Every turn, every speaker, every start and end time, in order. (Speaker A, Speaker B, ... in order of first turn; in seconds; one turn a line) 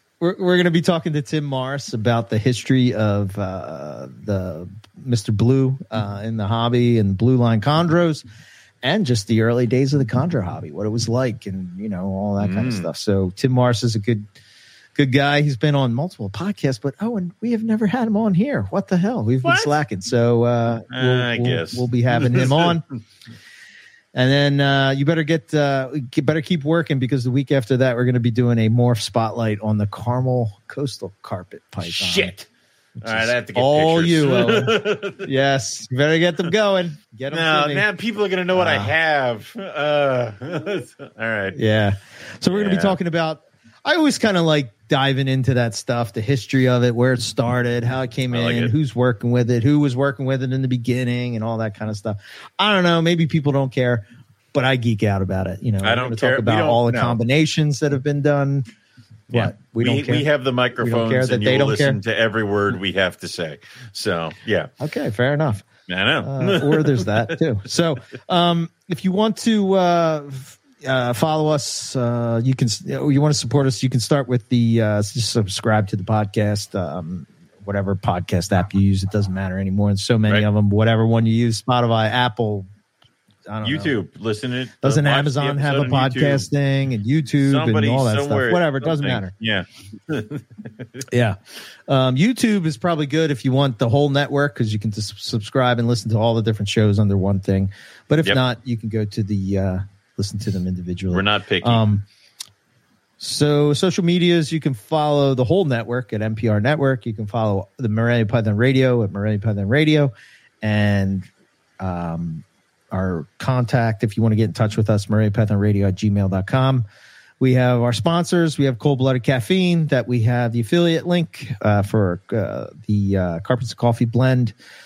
Speaker A: 0.2-8.2
Speaker A: 8.8-14.3
Speaker B: 12.4-12.9
Speaker A: 14.9-22.9
Speaker B: 19.4-19.8
Speaker B: 20.9-23.0
Speaker A: 24.1-32.3
Speaker B: 31.8-32.5
Speaker A: 33.0-37.9
Speaker B: 33.0-35.3
Speaker B: 37.3-41.6
Speaker A: 38.5-38.9
Speaker A: 41.5-58.7
Speaker B: 42.5-43.0
Speaker B: 48.3-48.7
Speaker B: 55.8-57.2
Speaker B: 59.3-64.7
Speaker A: 59.3-60.3
Speaker A: 60.8-62.0
Speaker A: 64.8-65.7
Speaker B: 65.9-67.4
Speaker A: 66.2-82.7
Speaker A: 83.5-84.0
Speaker B: 83.6-86.5
Speaker A: 84.8-89.3
Speaker B: 87.4-91.0
Speaker A: 91.1-102.1
Speaker B: 101.1-101.8
Speaker A: 103.2-111.3
Speaker A: 111.8-116.9
Speaker A: 117.4-124.5